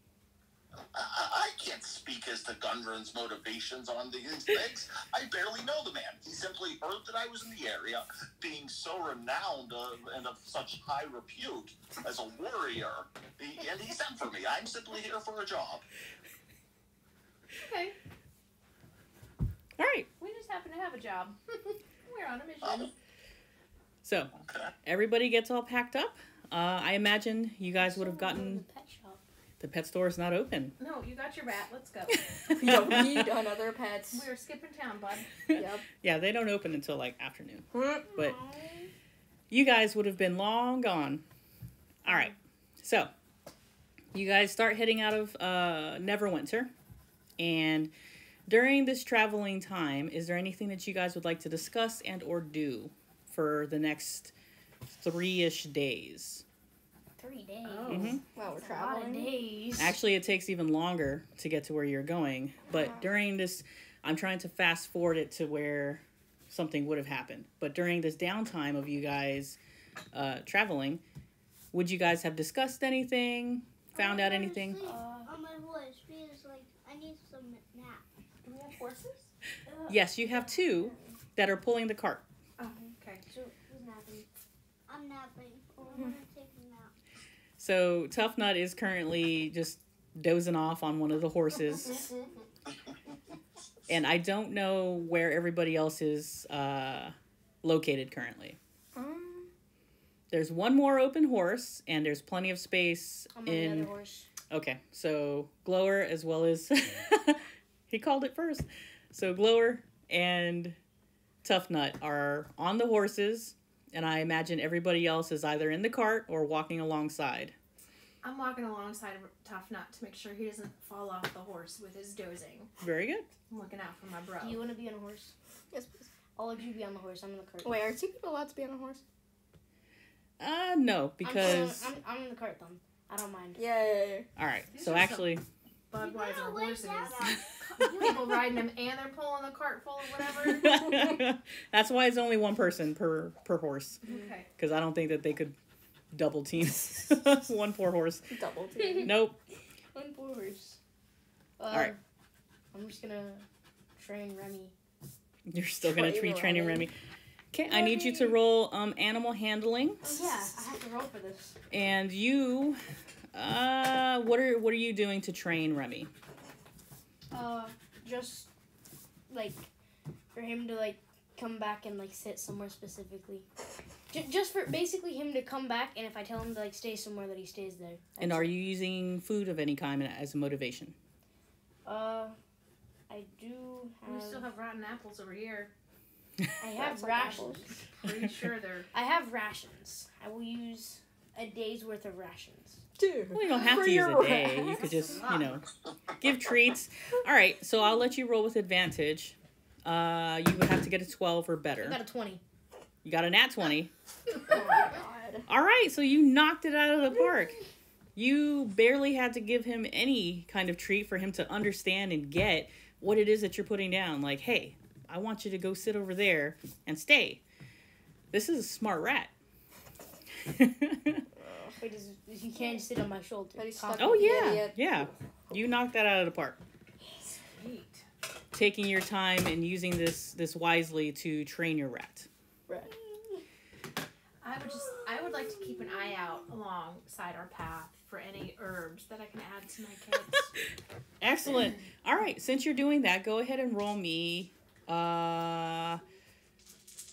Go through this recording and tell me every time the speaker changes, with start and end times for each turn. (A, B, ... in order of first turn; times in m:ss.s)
0:00.9-0:15.8 A
0:17.6-0:17.9 B
0:19.8-0:20.1 C
0:20.2-0:22.9 B
0:22.6-0:22.9 A
0:24.0-0:24.3 C
0:24.3-0:24.7 A
0:24.8-0:28.6 C
0:27.8-0:29.2 D
0:29.6-0:30.7 C
0:30.8-0:32.2 B
0:32.3-0:33.3 C
0:32.5-0:34.3 E
0:34.1-0:35.3 B
0:35.5-0:38.4 C
0:35.5-0:35.8 E
0:37.7-0:38.1 E
0:38.1-0:38.9 D
0:39.5-0:41.2 C
0:42.0-0:43.1 C
0:44.1-0:46.7 C
0:47.4-0:47.9 C
0:48.5-0:54.3 C
0:54.9-0:56.4 C
0:57.2-1:00.0 D
0:57.6-0:58.2 B
0:57.9-0:58.2 C
0:58.3-0:59.3 E
0:59.8-1:09.6 C
1:02.7-1:03.0 E
1:10.1-1:11.0 C
1:11.7-1:14.8 C
1:13.9-1:18.0 F
1:14.8-1:15.3 D
1:14.9-1:15.3 B
1:18.4-1:19.3 B
1:19.6-1:21.1 D
1:19.9-1:22.2 C
1:22.6-1:23.2 B
1:23.2-1:24.3 D
1:24.9-1:26.9 F
1:27.6-1:32.0 C
1:33.9-1:38.6 C
1:38.9-1:39.5 E
1:40.3-1:43.9 C
1:43.3-1:44.3 D
1:44.5-1:50.8 C
1:51.4-1:57.5 C
1:58.2-2:02.7 B
2:02.8-2:03.3 C
2:03.5-2:04.6 B
2:04.4-2:05.3 D
2:05.7-2:06.1 E
2:06.4-2:07.9 D
2:07.6-2:09.0 E
2:10.4-2:11.9 C
2:11.2-2:13.6 D
2:13.6-2:14.3 E
2:14.4-2:15.4 C
2:14.7-2:15.4 B
2:15.9-2:20.8 B
2:16.0-2:18.3 F
2:17.8-2:18.1 D
2:20.5-2:24.0 C
2:24.0-2:24.5 B
2:24.6-2:25.6 C
2:26.1-2:28.3 C
2:28.3-2:29.1 E
2:28.8-2:29.1 D
2:29.0-2:29.4 C
2:29.9-2:30.8 D
2:31.6-2:32.0 D
2:32.7-2:33.4 D
2:34.0-2:34.7 D
2:35.5-2:36.9 C
2:35.8-2:36.9 E
2:37.5-2:40.4 C
2:37.7-2:38.4 D
2:40.0-2:41.6 D
2:41.7-2:42.8 C
2:43.3-2:46.1 C
2:47.3-2:48.5 D
2:49.3-2:49.7 D
2:50.3-2:53.4 D
2:54.1-2:58.5 D
2:58.2-3:01.0 C
3:01.8-3:02.3 D
3:03.1-3:04.5 D
3:04.0-3:05.7 B
3:06.6-3:07.8 D
3:06.7-3:07.8 E
3:08.0-3:08.9 B
3:08.9-3:12.8 D
3:13.0-3:14.8 E
3:13.3-3:15.7 C
3:14.8-3:15.6 B
3:16.2-3:22.0 C
3:21.8-3:22.4 D
3:23.0-3:23.9 C
3:24.5-3:25.4 E
3:25.5-3:27.6 C
3:28.1-3:37.4 C
3:38.3-3:39.3 C
3:40.4-3:41.2 C
3:41.4-3:41.7 E
3:41.8-3:44.6 D
3:43.6-3:44.8 E
3:44.0-3:46.6 C
3:47.2-3:48.0 B
3:48.5-3:52.3 C
3:54.4-4:00.5 B
4:01.2-4:06.0 C